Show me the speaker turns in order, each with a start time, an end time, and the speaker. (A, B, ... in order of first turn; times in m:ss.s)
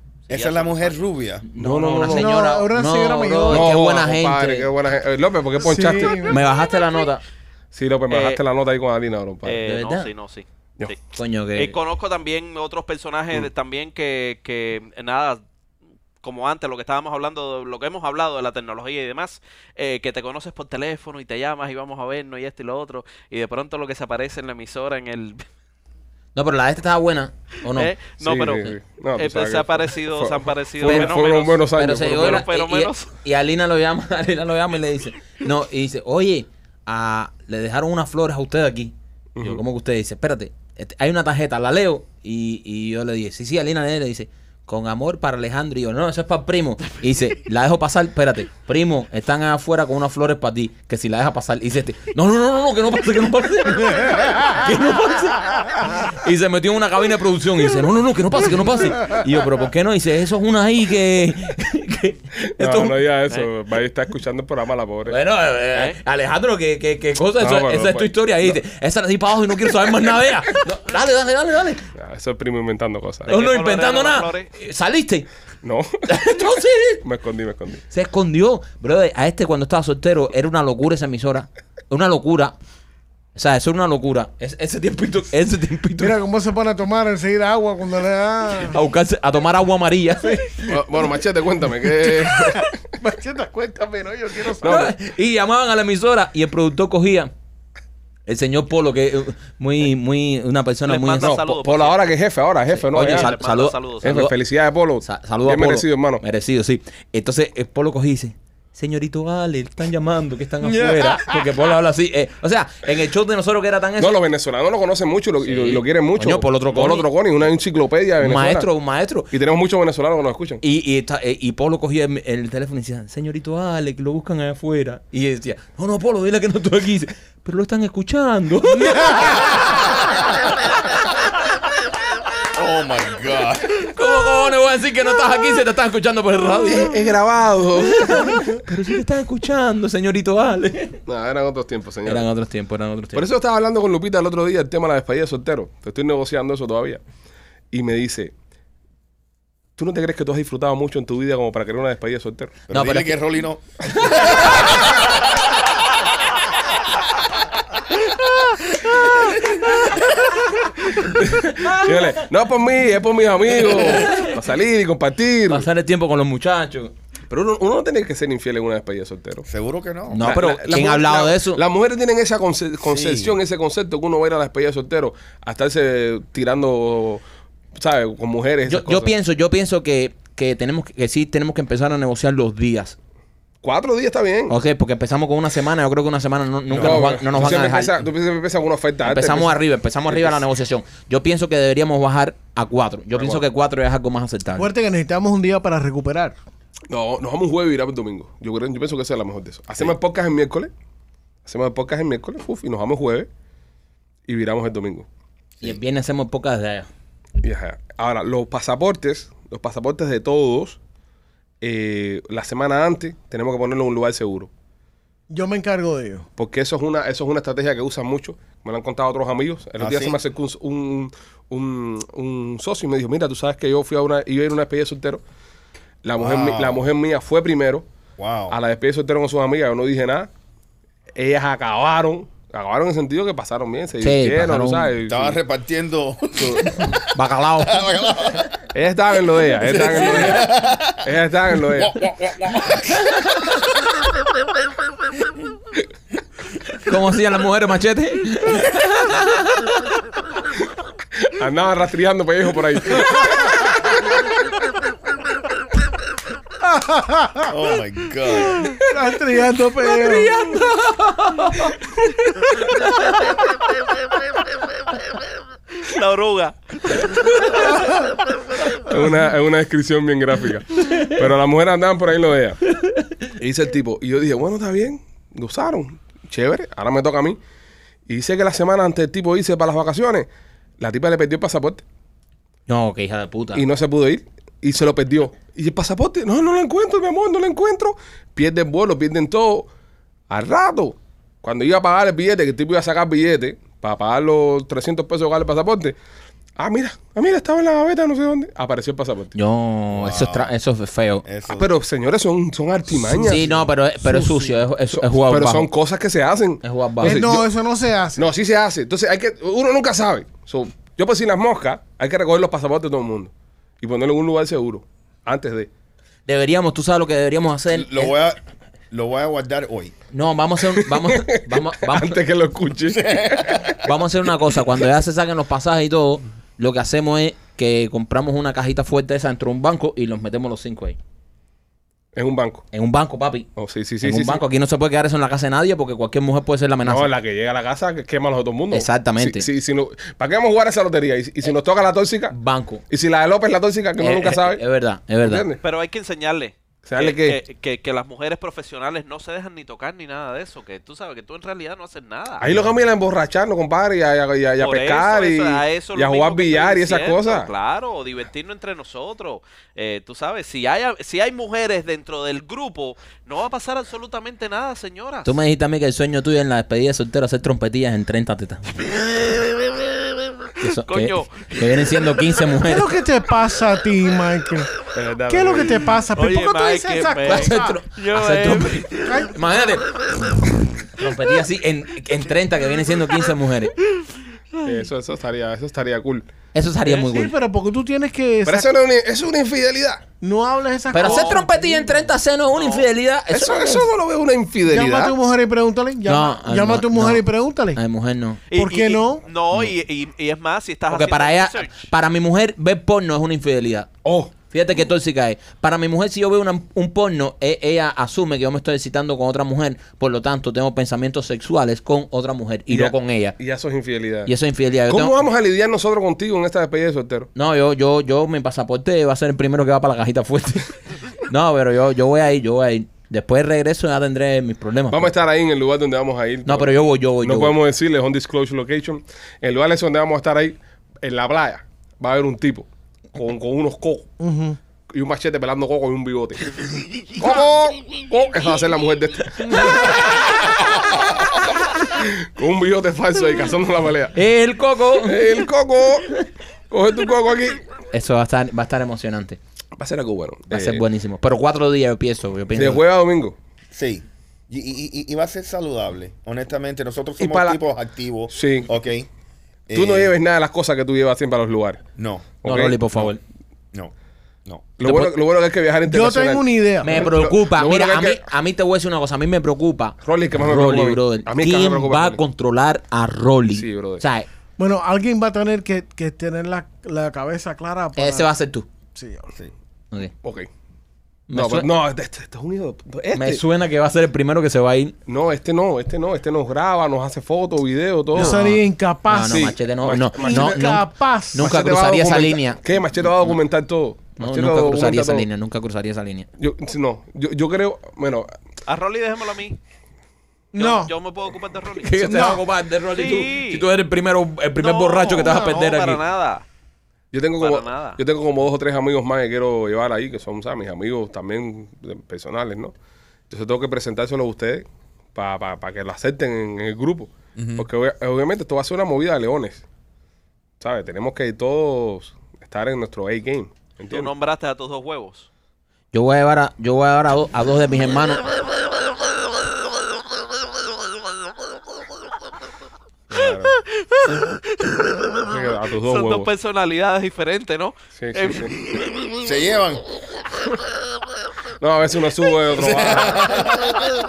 0:00.3-0:01.0 A
0:00.3-0:01.5 B
0:01.5-0:04.7 C
0:01.5-0:02.4 D
0:02.1-0:03.7 E
0:03.5-0:06.2 D
0:05.6-0:06.4 E
0:06.2-0:07.2 C
0:07.7-0:09.6 D
0:08.1-0:08.4 A
0:09.4-0:11.0 A
0:09.6-0:10.1 C
0:11.1-0:11.8 C
0:11.6-0:15.4 A
0:16.2-0:25.4 A
0:26.3-0:27.9 C
0:27.7-0:33.1 A
0:28.2-0:32.5 D
0:30.8-0:31.2 C
0:31.8-1:02.9 C
0:39.4-0:39.6 D
1:02.4-1:05.2 D
1:05.0-1:11.8 C
1:07.4-1:08.6 D
1:12.0-1:13.3 D
1:13.3-1:14.5 A
1:13.3-1:15.3 C
1:15.6-1:16.1 D
1:16.0-1:17.0 C
1:17.0-1:17.8 D
1:17.9-1:22.6 C
1:23.3-1:26.2 C
1:26.0-1:28.8 E
1:28.7-1:30.8 C
1:30.2-1:30.5 E
1:30.6-1:32.7 D
1:32.5-1:34.8 E
1:34.6-1:34.9 D
1:34.6-1:37.3 C
1:38.3-1:41.4 C
1:40.9-1:42.0 A
1:41.2-1:43.4 D
1:42.7-1:44.3 C
1:42.9-1:44.2 A
1:44.0-1:46.2 D
1:45.0-1:54.2 C
1:54.0-1:58.7 D
1:55.4-1:57.1 C
1:58.2-1:59.3 C
1:59.3-2:00.6 D
2:00.6-2:09.6 C
2:12.5-2:13.9 B
2:13.9-2:17.1 C
2:16.7-2:18.6 D
2:17.8-2:21.0 C
2:21.0-2:22.2 D
2:22.0-2:23.2 C
2:23.1-2:27.0 D
2:27.7-2:28.3 D
2:29.8-2:32.6 D
2:32.7-2:35.1 B
2:32.7-2:33.2 C
2:40.9-2:45.6 D
2:41.2-2:42.2 C
2:43.7-2:44.3 C
2:45.5-2:46.9 C
2:47.3-2:49.4 D
2:49.4-2:50.3 B
2:50.1-2:51.6 C
2:50.2-2:57.2 D
2:52.8-2:53.4 B
2:57.8-2:59.1 D
2:58.6-3:03.0 C
3:03.6-3:04.6 D
3:04.5-3:08.0 C
3:06.7-3:09.5 D
3:09.0-3:14.7 C
3:10.1-3:10.4 D
3:13.1-3:13.4 D
3:14.6-3:16.4 E
3:16.9-3:20.7 D
3:21.4-3:23.3 D
3:24.3-3:25.1 D
3:25.6-3:26.9 C
3:27.4-3:30.8 D
3:31.6-3:34.5 D
3:35.3-3:36.3 E
3:36.4-3:45.2 D
3:39.8-3:40.2 B
3:46.0-3:47.8 D
3:46.2-3:46.8 B
3:48.2-3:48.6 B
3:48.5-3:50.3 D
3:51.2-3:55.4 D
3:54.0-3:54.9 C
3:55.1-3:58.5 B
3:56.4-3:56.7 D
3:57.1-3:57.8 C
3:58.7-4:02.0 D
3:59.4-4:03.6 B
4:06.8-4:09.8 C
4:11.2-4:14.2 D
4:16.6-4:17.5 E
4:17.4-4:18.7 B
4:18.8-4:20.4 E
4:20.1-4:20.6 D
4:25.8-4:27.8 A
4:28.7-4:32.6 D
4:33.3-4:37.4 D
4:38.0-4:40.3 D
4:40.8-4:41.8 D
4:42.7-4:43.6 C
4:43.5-4:49.7 D
4:50.3-4:56.0 D
4:56.6-4:59.3 D
4:59.3-5:01.2 C
4:59.9-5:00.5 B
5:01.2-5:01.7 B
5:01.5-5:03.5 D
5:03.2-5:05.7 C
5:04.0-5:04.5 E
5:04.9-5:07.5 D
5:06.6-5:07.2 C
5:07.0-5:08.3 E
5:08.2-5:15.7 D
5:16.3-5:18.1 C
5:17.7-5:18.4 B
5:18.9-5:19.9 B
5:20.1-5:22.2 C
5:20.7-5:23.8 D
5:22.9-5:23.8 B
5:23.8-5:31.0 C
5:32.1-5:32.6 D
5:32.7-5:33.5 C
5:33.6-5:34.4 D
5:34.0-5:37.1 C
5:36.8-5:42.4 D
5:38.7-5:39.5 C
5:42.3-5:42.8 C
5:42.9-5:44.6 D
5:44.0-5:45.5 C
5:45.2-5:45.6 D
5:45.6-5:52.4 A
5:46.8-5:47.4 D
5:52.4-5:57.5 D
5:54.6-6:05.4 A
6:05.2-6:08.6 C
6:10.6-6:13.0 C
6:10.8-6:12.3 A
6:12.6-6:14.7 E
6:14.9-6:15.9 D
6:15.3-6:17.8 E
6:16.1-6:18.9 A
6:17.2-6:23.7 C
6:18.9-6:19.4 E
6:24.6-6:26.3 D
6:26.5-6:27.3 C
6:26.8-6:28.7 E
6:28.4-6:30.0 D
6:30.2-6:32.0 E
6:30.9-6:33.9 C
6:31.0-6:31.4 A
6:32.5-6:32.8 A
6:33.3-6:35.2 D
6:34.7-6:37.8 E
6:36.0-6:38.4 C
6:38.5-6:41.9 A
6:38.6-6:39.2 E
6:40.9-6:43.9 C
6:44.0-6:44.3 D
6:44.5-6:53.4 C
6:52.7-6:54.3 D
6:54.2-6:55.2 C
6:54.9-6:57.3 D
6:57.3-7:00.7 C
7:01.3-7:05.1 C
7:04.9-7:14.1 D
7:06.4-7:07.6 C
7:14.2-7:14.6 E
7:14.9-7:16.5 D
7:17.1-7:24.2 D
7:24.1-7:25.3 C
7:24.9-7:26.1 D
7:26.7-7:27.6 D
7:27.9-7:29.4 C
7:29.8-7:30.8 D
7:30.5-7:32.8 C
7:32.5-7:33.4 D
7:33.7-7:39.1 B
7:37.2-7:37.6 D
7:38.3-7:38.7 D
7:39.7-7:40.1 B
7:39.7-7:41.8 D
7:42.0-7:42.4 B
7:42.4-7:42.8 D
7:42.4-7:43.2 C
7:44.4-7:44.7 B
7:44.8-7:48.2 D
7:44.8-7:45.1 C
7:45.8-7:47.1 E
7:46.8-7:54.3 C
7:50.0-7:52.2 D
7:53.5-7:54.0 D
7:54.6-7:58.3 E
7:58.0-7:58.6 C
7:58.9-7:59.3 E
8:00.2-8:00.5 D
8:01.3-8:01.7 C
8:01.3-8:03.4 D
8:03.1-8:05.0 C
8:05.1-8:08.5 D
8:08.1-8:09.5 E
8:08.1-8:12.6 C
8:09.2-8:10.7 D
8:10.2-8:11.5 E
8:11.4-8:15.3 D
8:14.2-8:16.3 C
8:16.4-8:18.3 D
8:18.7-8:19.6 A
8:20.5-8:20.9 E
8:20.5-8:22.3 A
8:21.8-8:26.0 C
8:22.0-8:22.4 E
8:22.9-8:23.6 A
8:24.6-8:26.4 A
8:27.1-8:32.7 D
8:27.4-8:28.0 A
8:33.3-8:39.6 D
8:37.4-8:37.7 B
8:40.6-8:44.1 D
8:43.9-8:45.3 A
8:45.9-8:48.3 C
8:53.1-8:53.6 D
8:53.5-8:59.0 A
8:55.2-8:56.3 D
8:58.0-8:58.6 D
8:59.2-8:59.8 B
9:01.6-9:03.4 D
9:02.6-9:03.8 B